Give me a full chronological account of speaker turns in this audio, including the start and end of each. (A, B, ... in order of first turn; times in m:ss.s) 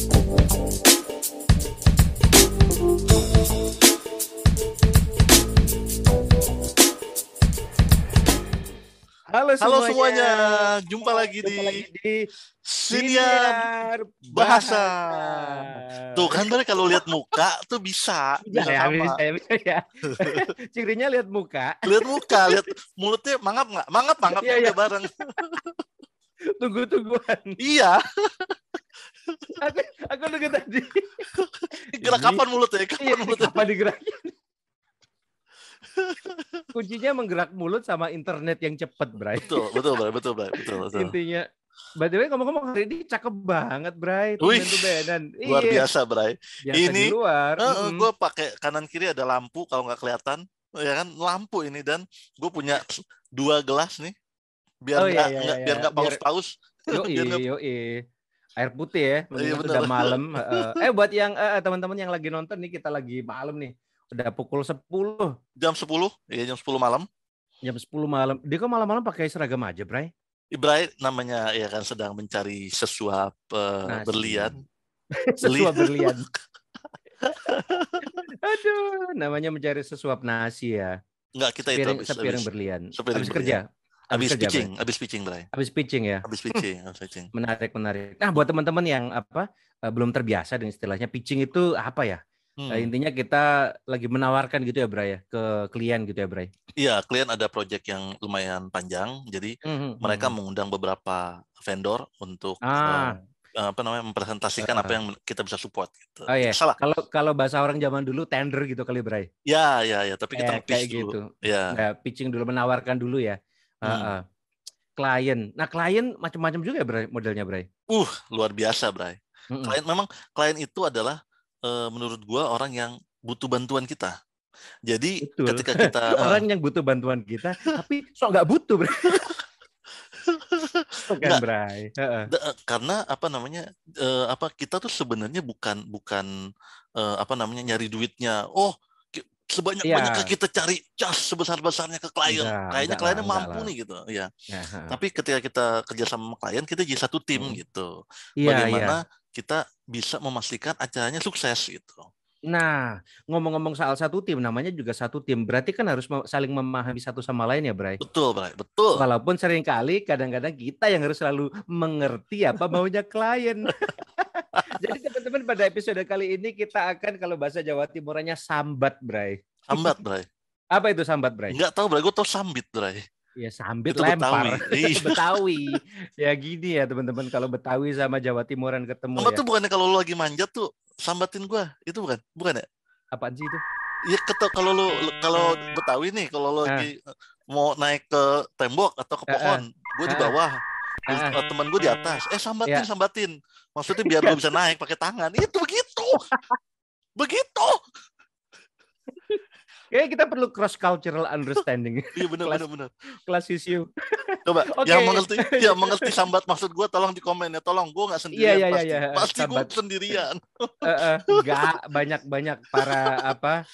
0:09.3-0:12.2 A
0:09.6-0:11.9 B
0:12.7-0:13.7 B
0:12.9-0:17.0 A
0:14.3-0:19.2 B
0:18.5-0:22.6 A
0:21.9-0:25.7 B
0:24.3-0:25.3 A
0:26.6-0:27.6 A
0:27.6-0:28.6 B
0:29.3-0:29.6 B
0:29.6-0:31.3 A
0:31.4-0:33.6 B
0:32.0-0:32.4 A
0:33.0-0:34.4 A
0:35.9-0:36.7 B
0:36.7-0:39.8 A
0:39.4-0:41.1 B
0:40.6-0:41.4 A
0:42.0-0:45.9 A
0:44.4-0:54.1 B
0:46.7-0:48.1 A
0:54.8-0:57.4 B
0:55.0-0:56.2 A
0:56.9-0:58.0 A
0:58.6-1:05.3 A
0:59.4-1:00.8 B
1:05.6-1:07.1 B
1:07.6-1:10.1 A
1:10.5-1:14.6 B
1:13.9-1:14.5 A
1:15.3-1:16.3 A
1:15.4-1:16.4 B
1:17.2-1:18.2 B
1:18.3-1:20.9 A
1:21.4-1:22.5 B
1:21.8-1:24.7 A
1:23.0-1:23.6 B
1:24.1-1:25.5 B
1:25.5-1:26.6 A
1:26.2-1:27.3 B
1:27.3-1:32.2 A
1:32.6-1:32.9 B
1:32.7-1:36.5 A
1:36.8-1:46.8 B
1:39.6-1:40.3 A
1:42.7-1:43.2 A
1:44.6-1:45.0 A
1:46.3-1:49.3 A
1:49.5-1:51.8 B
1:50.4-1:54.2 A
1:53.9-1:54.1 B
1:55.0-1:57.7 A
1:57.9-2:04.1 B
1:59.5-1:59.8 A
2:04.9-2:06.4 B
2:05.2-2:09.4 A
2:09.0-2:09.3 B
2:10.2-2:11.4 B
2:11.1-2:12.3 A
2:12.3-2:16.3 B
2:17.0-2:24.3 B
2:19.8-2:20.3 A
2:22.3-2:23.7 A
2:24.5-2:25.0 A
2:24.9-2:27.9 B
2:28.4-2:29.0 A
2:28.4-2:32.1 B
2:32.5-2:38.0 A
2:38.0-2:39.0 B
2:39.0-2:50.0 A
2:49.7-2:50.3 B
2:50.7-2:51.6 A
2:51.5-2:53.0 B
2:53.4-2:59.4 A
2:53.9-2:55.4 B
2:59.2-3:02.6 B
3:03.2-3:03.6 A
3:04.1-3:10.6 B
3:09.3-3:10.4 A
3:11.1-3:11.4 A
3:11.1-3:16.2 B
3:14.0-3:14.4 A
3:17.2-3:17.8 B
3:19.9-3:22.6 A
3:22.2-3:22.9 B
3:23.3-3:26.2 A
3:24.5-3:31.7 B
3:28.4-3:29.7 A
3:30.8-3:33.6 A
3:32.8-3:33.3 B